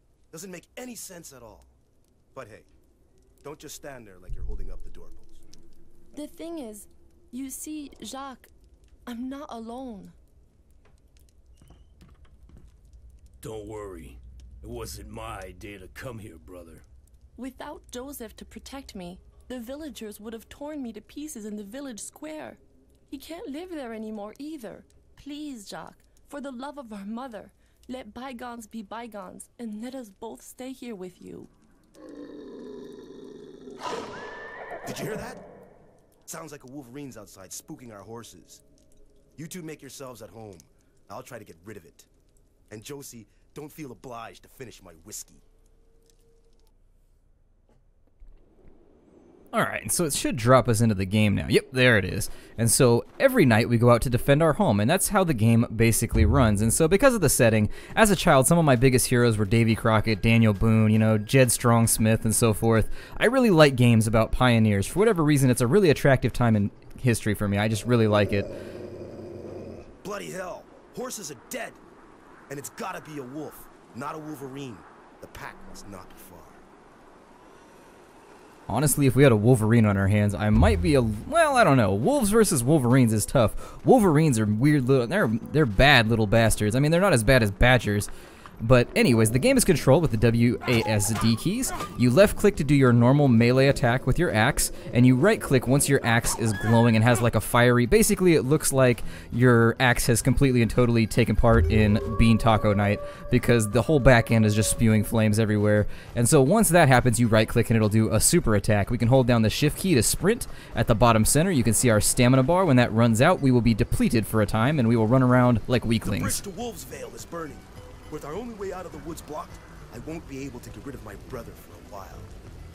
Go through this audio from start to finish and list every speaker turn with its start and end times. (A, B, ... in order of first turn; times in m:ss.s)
0:00.3-0:01.7 A
0:02.3-0:02.7 A
0:03.4-0:05.4 A
0:06.1-0:08.5 B
0:09.0-0:10.1 B
0:13.4-0:16.8 C
0:17.4-0:31.5 B
0:34.8-0:35.4 A
0:36.3-0:38.6 A
0:39.4-0:42.1 A
0:42.7-0:45.4 A
0:49.5-1:08.5 D
1:10.0-1:11.8 A
1:12.5-1:16.6 A
1:18.7-1:28.1 D
1:28.6-1:56.4 D
1:56.0-2:02.3 A